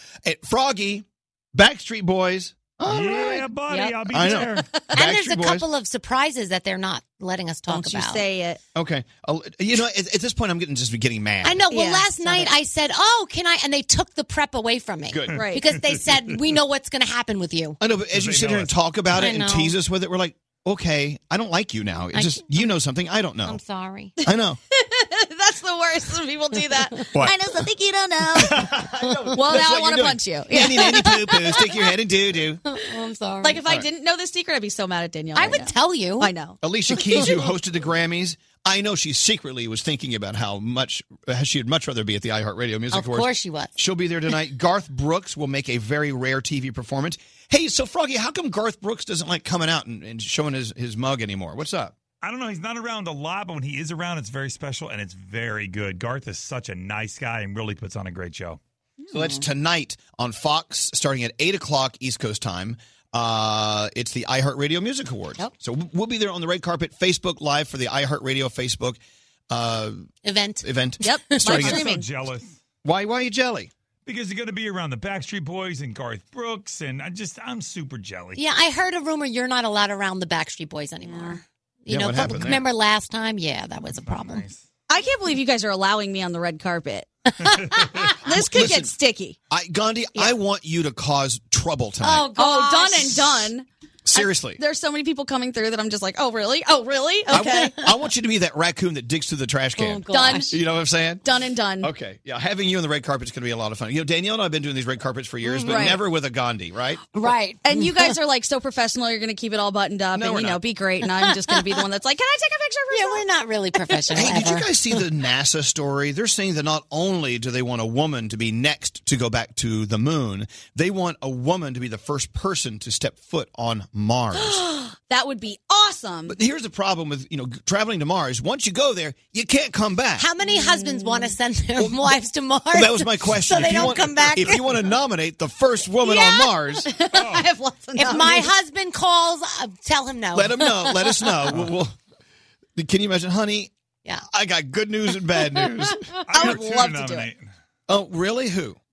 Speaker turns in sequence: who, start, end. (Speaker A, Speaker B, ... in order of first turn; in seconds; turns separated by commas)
Speaker A: 0.2-3.5, Speaker B: 2.9-4.7, Speaker A: 4.1-5.7, Speaker C: 4.9-8.2, Speaker D: 7.7-8.6, Speaker A: 8.8-11.6, Speaker C: 11.4-17.8, Speaker D: 11.7-12.5, Speaker A: 15.1-15.4, Speaker D: 15.3-15.7, Speaker A: 17.8-23.6, Speaker B: 18.1-18.7, Speaker C: 19.1-19.7, Speaker C: 22.1-22.6, Speaker C: 23.4-24.1, Speaker A: 24.2-24.6, Speaker D: 24.7-28.8, Speaker A: 28.3-32.6, Speaker D: 29.3-31.0, Speaker C: 30.6-31.6, Speaker C: 32.7-33.6, Speaker D: 33.4-36.6, Speaker C: 35.4-36.3, Speaker A: 36.6-52.0, Speaker C: 42.9-43.7, Speaker B: 52.2-58.6, Speaker D: 59.0-59.4, Speaker A: 59.1-69.0, Speaker A: 69.5-70.1, Speaker C: 70.2-70.7, Speaker A: 70.6-71.8, Speaker D: 71.0-72.1, Speaker B: 71.5-72.6, Speaker A: 72.8-73.7, Speaker B: 74.1-78.4, Speaker C: 78.4-84.5, Speaker D: 81.0-81.4, Speaker A: 81.9-82.7, Speaker B: 84.1-84.6, Speaker D: 84.9-87.1, Speaker C: 87.4-88.0, Speaker D: 88.3-89.4, Speaker A: 88.4-88.9, Speaker A: 89.5-92.2, Speaker C: 92.0-93.5, Speaker D: 92.4-97.7, Speaker A: 94.1-94.6, Speaker A: 97.3-101.2, Speaker C: 97.4-97.7, Speaker C: 99.8-100.5, Speaker D: 100.1-100.6, Speaker D: 101.2-101.9, Speaker A: 101.8-107.0, Speaker C: 105.5-105.9, Speaker D: 105.7-106.0, Speaker C: 107.1-108.1, Speaker D: 107.6-113.2, Speaker A: 110.2-110.6, Speaker C: 111.2-111.6, Speaker C: 112.9-115.0, Speaker A: 114.2-124.6, Speaker D: 124.4-126.4, Speaker A: 126.3-130.3, Speaker C: 130.2-134.7, Speaker D: 130.4-131.3, Speaker A: 131.8-132.2, Speaker A: 132.7-136.9, Speaker D: 136.1-138.4, Speaker B: 137.2-137.5, Speaker C: 138.0-141.3, Speaker A: 138.1-138.4, Speaker A: 140.3-142.0, Speaker A: 142.8-143.7, Speaker A: 144.3-146.6, Speaker B: 146.3-147.5, Speaker D: 146.3-147.3, Speaker A: 147.9-148.8